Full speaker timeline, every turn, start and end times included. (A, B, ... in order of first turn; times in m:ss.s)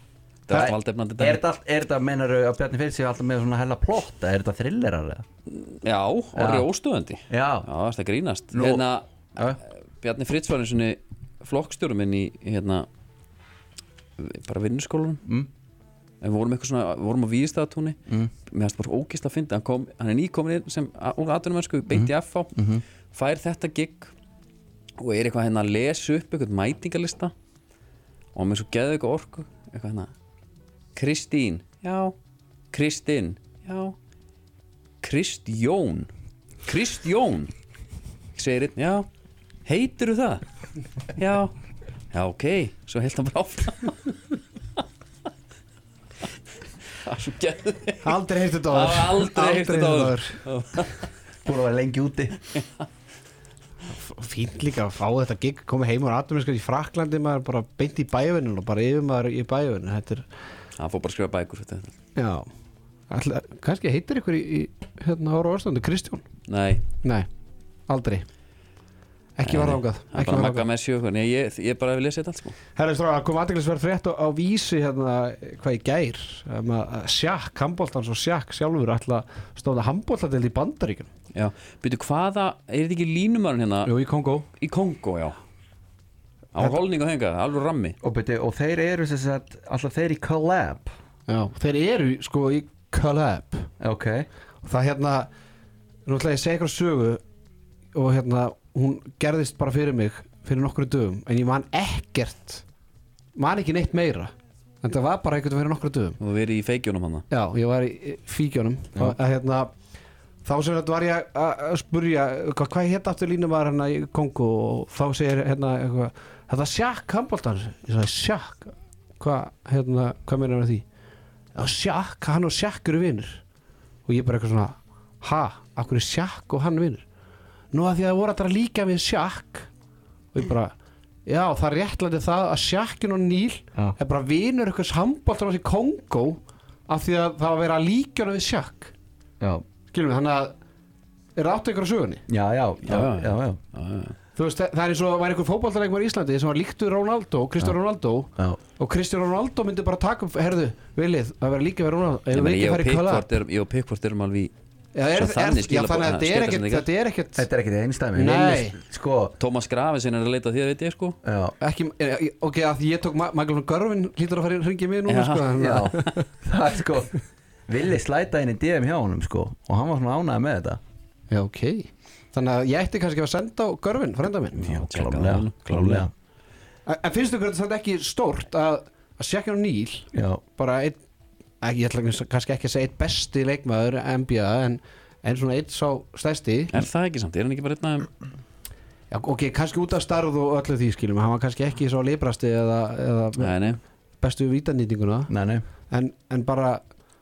0:00.5-0:01.4 A
0:00.5-0:05.2 B
0:05.5-0:09.1 A
0:06.4-0:06.7 B
0:07.3-0:07.7 B
0:08.5-0:09.6 B
0:10.0-0:12.9 A
0:14.2-0:15.2 A
0:15.2-0:15.5 B
0:16.2-0:18.0 A
0:18.5-0:22.5 A
0:21.9-0:22.8 B
0:23.1-0:24.1 A
0:25.0-0:27.3 A
0:28.4-0:30.1 A
0:31.0-0:32.2 A
0:32.7-0:34.0 A
0:35.0-0:36.1 A
0:36.7-0:37.5 A
0:38.4-0:39.1 A
0:39.6-0:40.4 A
0:41.2-0:41.5 A
0:42.1-0:44.2 A
0:47.0-0:48.2 A
0:48.0-0:50.4 C
0:48.7-0:51.1 A
0:51.4-0:52.4 B
0:52.6-0:52.8 A
0:53.9-1:00.3 C
1:00.8-1:02.0 A
1:02.2-1:02.5 C
1:03.1-1:06.2 C
1:06.5-1:06.8 A
1:07.0-1:07.3 C
1:07.9-1:08.3 C
1:09.4-1:10.7 C
1:09.5-1:12.6 A
1:12.8-1:21.1 C
1:21.3-1:23.9 A
1:23.8-1:24.5 C
1:24.6-1:25.4 A
1:26.5-1:28.0 A
1:28.0-1:30.9 B
1:31.3-1:33.7 C
1:33.8-1:34.3 B
1:34.6-1:35.3 C
1:36.1-1:37.2 C
1:37.9-1:42.6 C
1:43.4-1:46.2 C
1:46.2-1:47.3 A
1:47.3-1:49.7 C
1:50.4-2:00.8 C
2:01.6-2:03.4 C
2:04.1-2:07.0 C
2:07.7-2:09.7 C
2:10.3-2:10.7 C
2:11.3-2:18.9 C
2:19.9-2:20.6 C
2:21.4-2:22.2 C
2:22.3-2:23.6 B
2:22.9-2:24.2 A
2:24.4-2:33.3 C
2:32.3-2:34.5 A
2:35.0-2:37.5 C
2:35.1-2:36.9 A
2:37.4-2:39.4 B
2:38.2-2:38.8 C
2:39.4-2:41.2 A
2:41.2-2:41.6 B
2:41.6-2:46.3 C
2:45.1-2:45.8 A
2:45.6-2:50.8 B
2:51.3-2:54.7 C
2:54.6-2:56.1 B
2:54.6-2:56.1 A
2:56.9-3:01.0 C
3:00.1-3:00.4 B
3:01.6-3:06.7 C
3:06.7-3:08.1 A
3:09.1-3:13.6 C
3:13.4-3:13.8 A
3:14.2-3:15.3 C
3:15.3-3:15.6 B
3:15.9-3:16.8 C